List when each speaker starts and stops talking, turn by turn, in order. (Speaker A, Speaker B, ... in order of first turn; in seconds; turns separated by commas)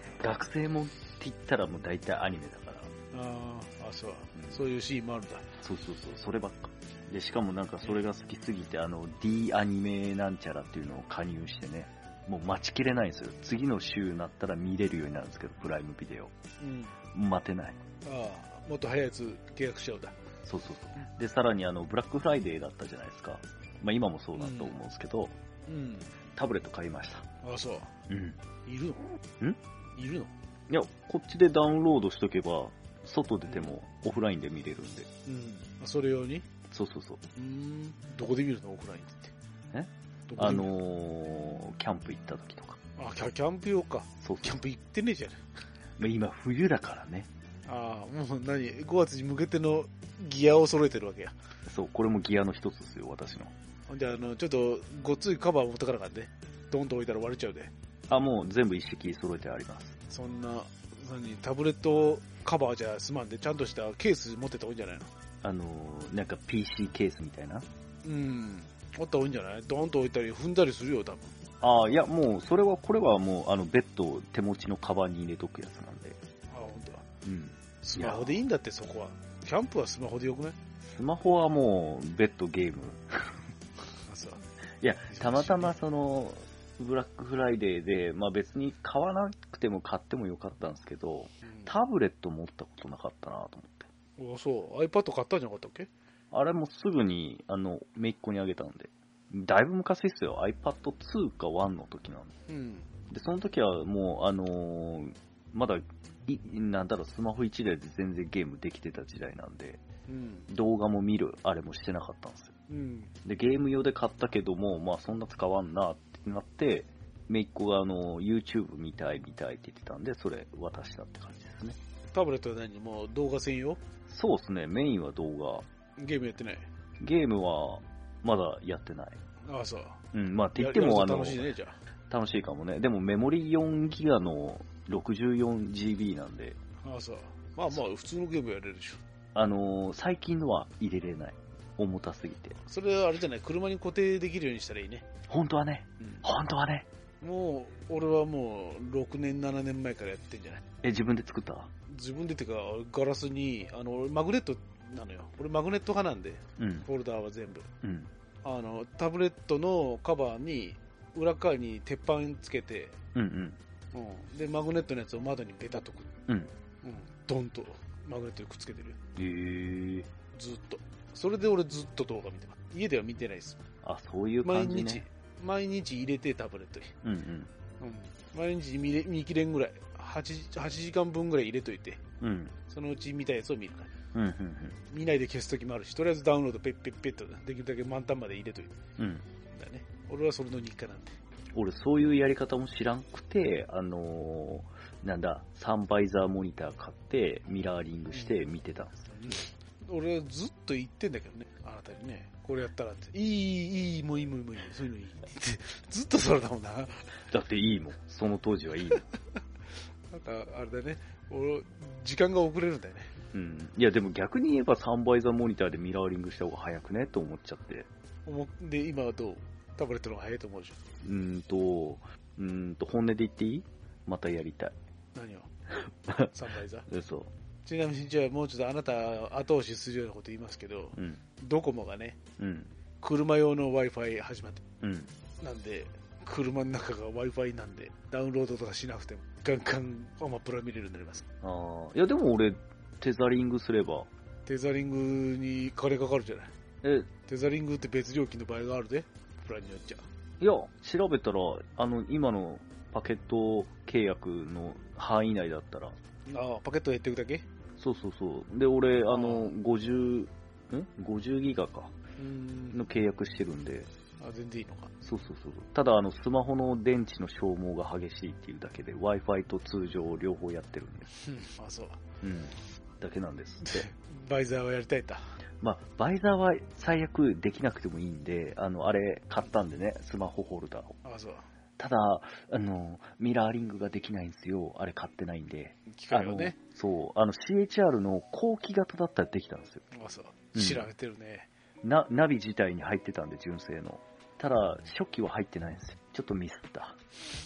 Speaker A: 0.2-2.9, Speaker B: 3.1-5.5, Speaker A: 4.3-4.6, Speaker A: 5.6-16.3, Speaker B: 16.6-16.9, Speaker A: 17.1-17.8, Speaker B: 18.0-20.1, Speaker A: 20.4-25.3, Speaker B: 24.4-24.7, Speaker B: 25.7-26.1, Speaker A: 26.4-27.2, Speaker B: 27.4-27.9, Speaker A: 28.1-28.4, Speaker B: 28.6-29.1, Speaker B: 29.9-30.3, Speaker A: 30.7-35.1, Speaker B: 33.5-33.7, Speaker B: 35.2-36.5, Speaker A: 36.7-37.2, Speaker B: 37.4-39.3, Speaker A: 39.7-42.8, Speaker B: 40.3-40.7, Speaker B: 43.0-45.4, Speaker A: 44.2-44.6, Speaker A: 46.0-47.3, Speaker B: 47.6-51.4, Speaker A: 51.6-53.5, Speaker B: 53.9-57.7, Speaker A: 58.1-59.9, Speaker B: 60.1-65.1, Speaker A: 65.4-67.7, Speaker B: 68.0-71.3, Speaker A: 71.6-76.2, Speaker B: 76.5-77.1, Speaker A: 77.2-78.3, Speaker B: 77.8-80.5, Speaker A: 80.8-83.4, Speaker B: 84.0-84.4, Speaker A: 84.8-93.9, Speaker B: 85.1-85.7, Speaker B: 91.4-91.7, Speaker B: 94.2-95.9, Speaker A: 96.3-102.3, Speaker B: 102.5-102.9, Speaker A: 103.1-109.8, Speaker B: 110.1-110.5, Speaker A: 110.5-112.5, Speaker B: 112.7-113.1, Speaker A: 113.2-121.8, Speaker B: 122.1-123.8, Speaker A: 124.1-125.7, Speaker B: 126.0-126.7, Speaker A: 127.0-129.2, Speaker B: 129.4-130.0, Speaker A: 130.1-131.5, Speaker B: 130.5-131.8, Speaker A: 132.1-136.6, Speaker B: 136.8-139.0, Speaker A: 139.3-142.6, Speaker B: 142.7-145.1, Speaker A: 145.3-146.9, Speaker B: 146.0-146.2, Speaker B: 147.2-150.6, Speaker A: 150.8-151.7, Speaker B: 151.9-157.7, Speaker A: 156.6-156.9, Speaker A: 157.8-158.1, Speaker B: 158.4-163.0, Speaker A: 163.1-163.6, Speaker B: 163.9-166.1, Speaker B: 166.8-169.0, Speaker A: 169.2-170.1, Speaker B: 170.3-173.6, Speaker A: 173.8-175.0, Speaker B: 174.4-176.9, Speaker A: 177.0-177.5, Speaker B: 177.8-182.0, Speaker A: 182.2-182.5, Speaker B: 182.7-183.9, Speaker A: 184.1-184.8, Speaker B: 184.9-188.8, Speaker A: 189.0-189.2, Speaker B: 189.5-191.2, Speaker A: 191.5-199.0, Speaker B: 198.1-198.4, Speaker B: 199.0-207.1, Speaker A: 207.3-209.0, Speaker B: 210.1-213.1, Speaker A: 213.3-217.9, Speaker B: 218.2-220.8, Speaker A: 221.0-224.7, Speaker B: 225.1-225.5, Speaker A: 225.7-226.3, Speaker B: 226.3-226.9, Speaker A: 226.9-227.3, Speaker B: 227.6-232.2, Speaker A: 230.9-231.2, Speaker A: 232.4-232.7, Speaker B: 233.0-234.6, Speaker A: 234.8-235.1, Speaker B: 235.4-241.2, Speaker A: 241.4-244.1, Speaker B: 244.4-246.5, Speaker A: 246.8-247.1, Speaker B: 247.3-250.0, Speaker A: 250.4-255.9, Speaker B: 256.3-257.5, Speaker A: 257.8-261.9, Speaker B: 259.1-259.5, Speaker B: 262.2-262.8, Speaker A: 262.7-263.9, Speaker B: 264.2-264.9, Speaker A: 265.0-271.1, Speaker B: 271.1-272.0, Speaker A: 272.2-273.9, Speaker B: 273.6-275.4, Speaker A: 275.6-281.0, Speaker B: 281.0-281.5, Speaker A: 281.8-289.8, Speaker B: 285.9-286.5, Speaker B: 289.9-291.5, Speaker A: 290.5-290.9, Speaker A: 291.8-297.0